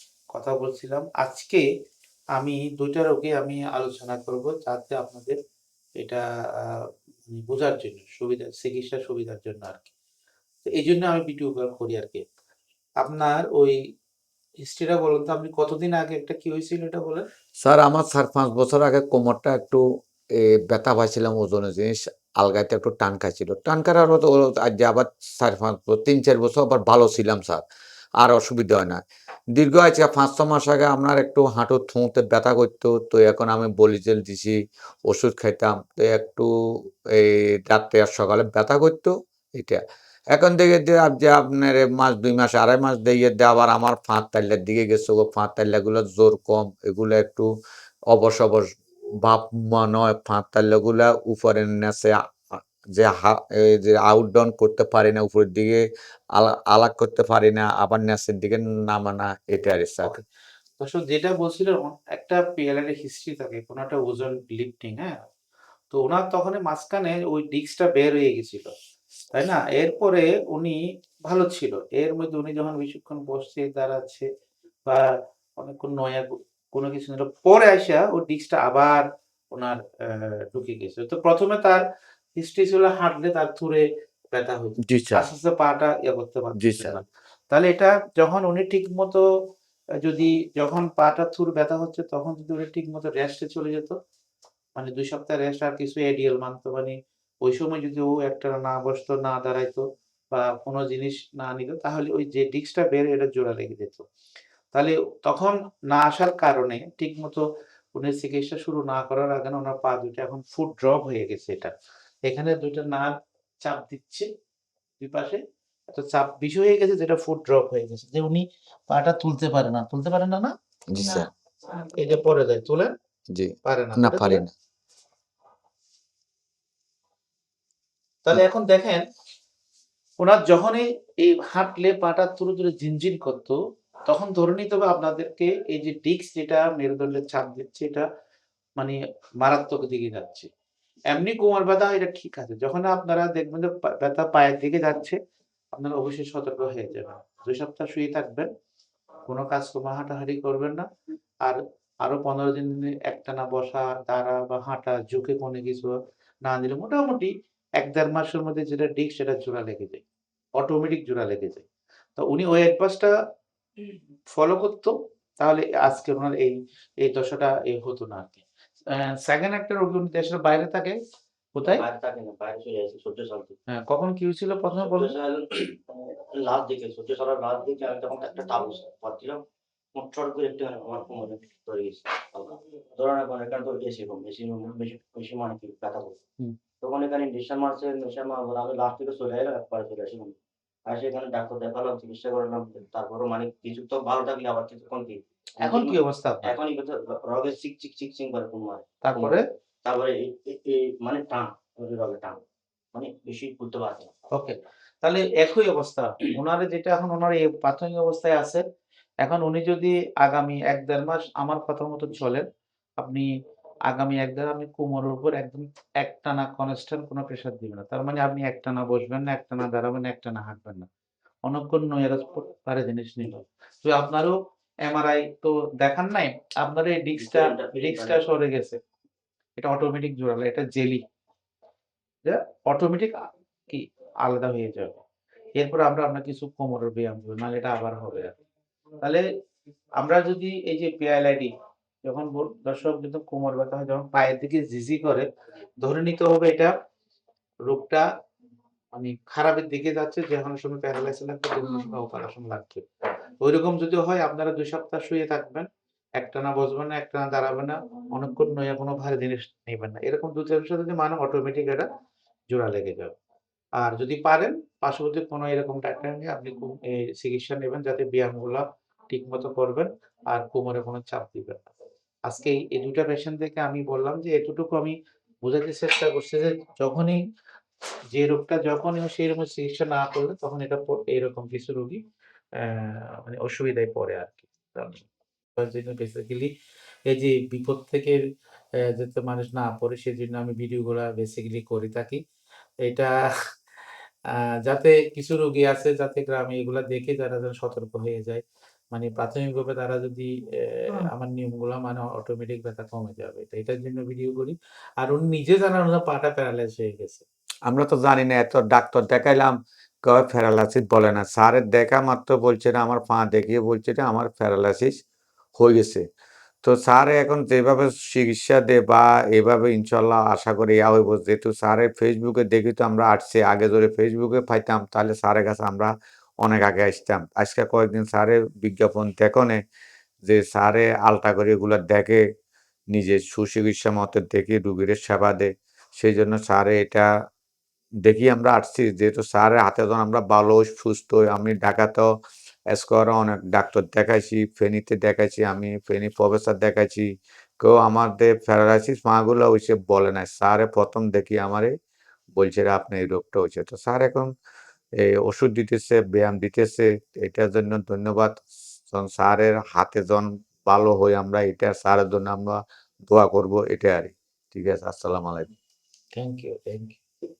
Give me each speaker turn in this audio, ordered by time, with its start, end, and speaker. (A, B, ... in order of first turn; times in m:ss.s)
0:00.3-0:01.7 A
0:02.3-0:05.4 A
0:06.0-0:09.9 A
0:10.6-0:12.2 A
0:13.0-0:13.8 A
0:14.6-0:17.2 A
0:17.6-0:19.8 B
0:20.4-0:27.6 B
0:28.2-0:29.0 B
0:29.5-0:36.5 B
0:37.1-0:39.8 B
0:40.3-0:47.5 B
0:48.1-0:55.8 B
0:56.4-1:00.1 B
1:00.8-1:05.2 A
1:05.9-1:08.7 A
1:09.3-1:14.3 A
1:14.8-1:21.8 A
1:22.4-1:29.2 A
1:24.8-1:25.2 B
1:26.6-1:27.0 B
1:30.0-1:34.0 A
1:34.8-1:44.0 A
1:44.7-1:47.4 A
1:47.9-1:51.7 A
1:52.3-1:54.3 A
1:55.0-2:02.9 A
2:00.9-2:01.3 B
2:03.3-2:04.5 B
2:03.6-2:04.4 A
2:08.2-2:09.0 A
2:10.2-2:18.1 A
2:18.8-2:20.5 A
2:21.1-2:25.2 A
2:25.7-2:28.5 A
2:29.3-2:30.9 A
2:31.4-2:40.0 A
2:40.6-2:41.7 A
2:42.2-2:43.1 A
2:44.3-2:51.0 A
2:51.5-2:51.8 A
2:51.7-2:53.6 C
2:53.7-2:55.1 A
2:54.8-2:59.4 C
2:59.9-3:06.2 C
3:06.8-3:10.4 C
3:10.9-3:22.4 C
3:15.6-3:16.6 A
3:19.0-3:19.4 A
3:22.9-3:24.1 C
3:24.3-3:28.6 A
3:29.2-3:32.4 A
3:33.0-3:33.3 A
3:33.9-3:40.9 A
3:41.4-3:48.8 A
3:47.2-3:48.2 C
3:49.6-3:51.0 A
3:52.2-3:55.0 A
3:55.6-3:58.3 A
4:00.0-4:01.5 A
4:02.0-4:05.3 A
4:05.8-4:06.7 A
4:07.7-4:08.1 A
4:08.9-4:12.8 A
4:13.4-4:15.7 A
4:16.2-4:21.9 A
4:22.5-4:23.1 A
4:23.8-4:31.6 A
4:32.3-4:37.2 A
4:38.1-4:42.0 A
4:42.6-4:45.0 A
4:45.6-4:46.5 A
4:47.1-4:48.2 A
4:48.9-4:52.2 A
4:52.8-4:53.3 A
4:54.7-5:07.2 A
5:07.7-5:14.9 B
5:15.6-5:16.0 B
5:16.6-5:29.6 B
5:30.2-5:32.2 B
5:32.9-5:37.1 B
5:38.0-5:42.1 B
5:42.7-5:47.1 B
5:47.6-5:51.7 B
5:52.4-5:54.3 B
5:55.0-6:05.5 B
6:06.1-6:07.0 A